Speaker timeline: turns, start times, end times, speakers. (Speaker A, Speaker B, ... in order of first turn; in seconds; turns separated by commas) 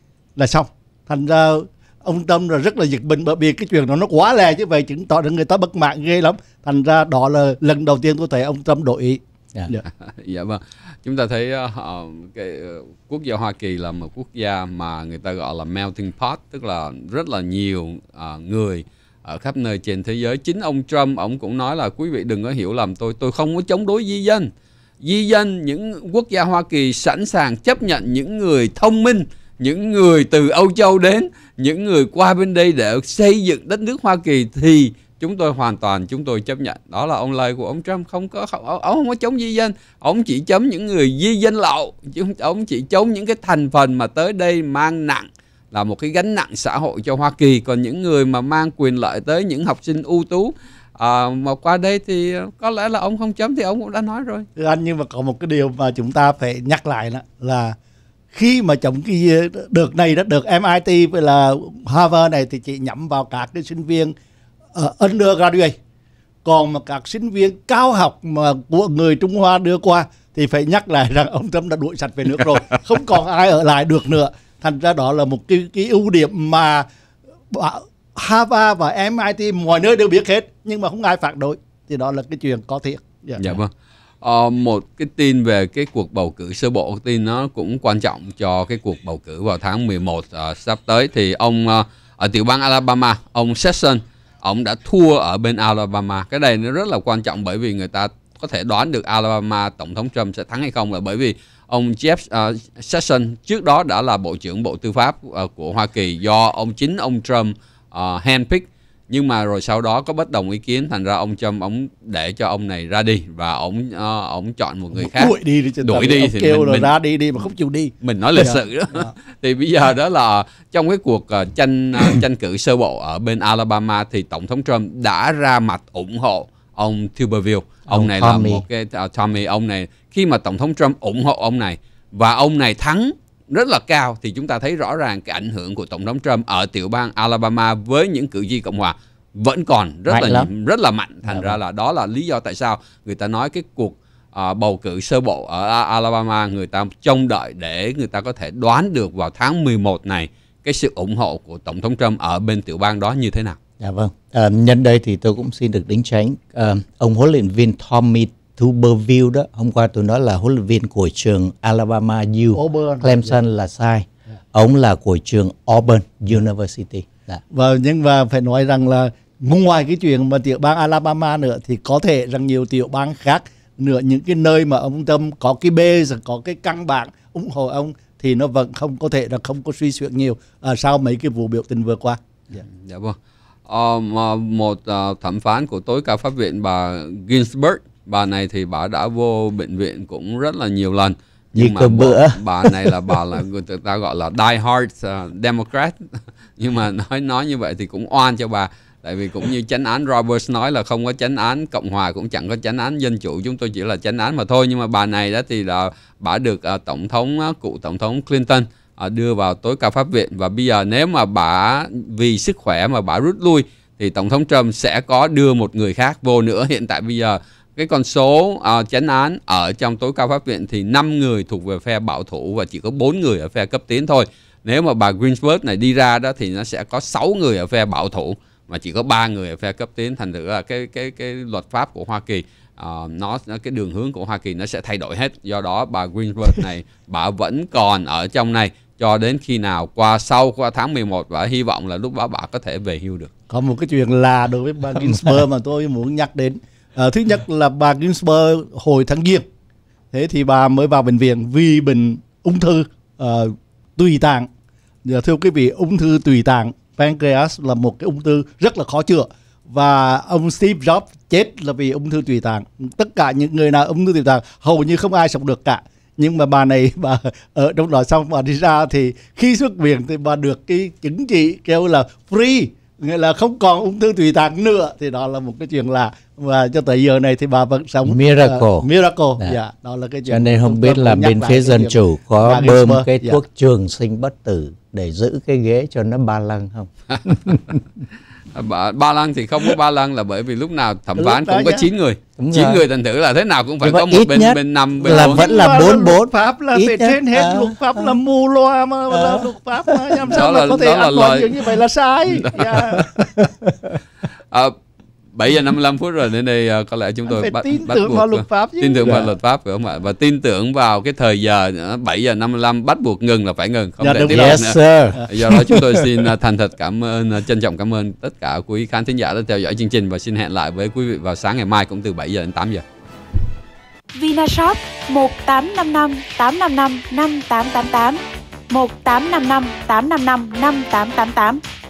Speaker A: 0.4-9.8, Speaker B: 9.8-54.5, Speaker A: 54.6-57.8, Speaker A: 58.3-64.1, Speaker A: 64.8-65.7, Speaker A: 66.5-76.9, Speaker A: 77.5-83.6, Speaker B: 83.4-83.7, Speaker B: 84.2-116.9, Speaker A: 115.0-119.1, Speaker B: 118.0-153.6, Speaker C: 127.9-128.6, Speaker C: 140.1-140.5, Speaker C: 153.8-167.4, Speaker A: 162.6-163.3, Speaker A: 167.5-182.2, Speaker B: 182.6-196.0, Speaker C: 191.6-193.0, Speaker B: 196.6-243.3, Speaker A: 243.5-249.4, Speaker A: 250.1-254.5, Speaker A: 255.1-283.4, Speaker C: 278.1-278.9, Speaker C: 280.3-287.8, Speaker B: 288.5-295.5, Speaker A: 291.2-291.9, Speaker C: 292.4-292.8, Speaker C: 293.8-298.1, Speaker A: 295.0-303.3, Speaker C: 299.1-300.2, Speaker B: 300.3-301.5, Speaker B: 302.4-302.6, Speaker C: 303.0-304.0, Speaker B: 305.3-314.8, Speaker A: 307.3-309.3, Speaker A: 314.0-315.3, Speaker C: 314.3-315.9, Speaker B: 315.3-322.8, Speaker D: 324.1-331.6